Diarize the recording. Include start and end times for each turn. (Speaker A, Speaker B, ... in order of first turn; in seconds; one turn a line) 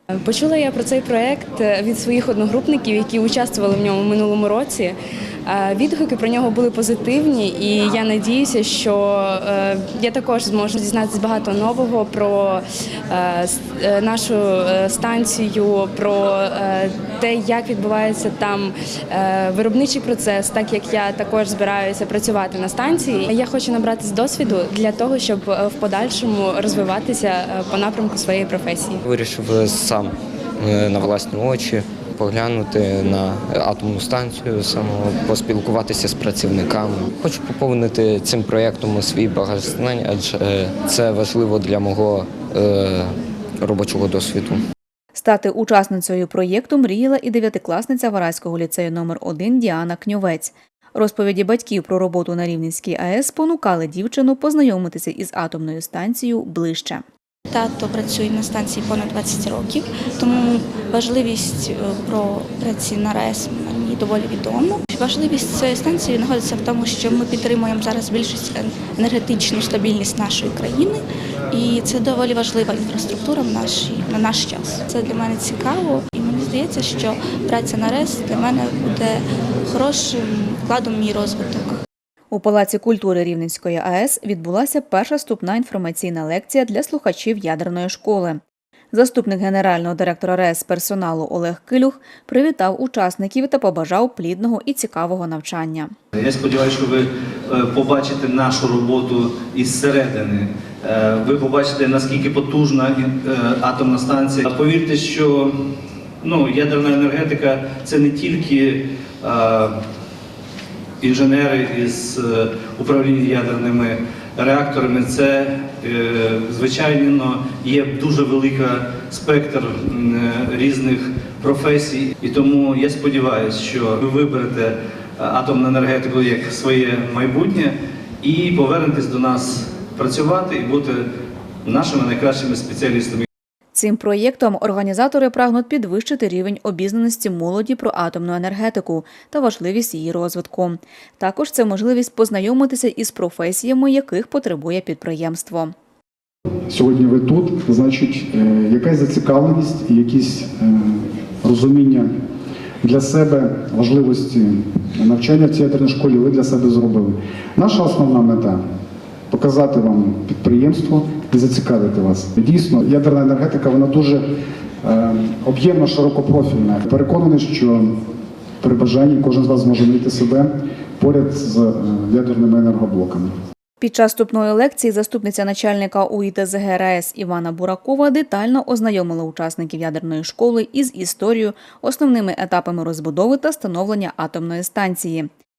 Speaker A: 0.2-29.0
Speaker B: 29.0-44.6
Speaker C: 45.1-57.0
Speaker D: 57.5-81.8
Speaker C: 82.3-88.4
Speaker C: 88.9-95.9
Speaker E: 96.1-105.5
Speaker E: 106.2-109.8
Speaker E: 111.0-131.0
Speaker E: 131.6-133.2
Speaker C: 133.7-145.7
Speaker F: 146.7-152.1
Speaker F: 152.8-158.6
Speaker F: 159.3-164.2
Speaker F: 164.8-167.9
Speaker F: 168.6-173.3
Speaker C: 173.8-185.3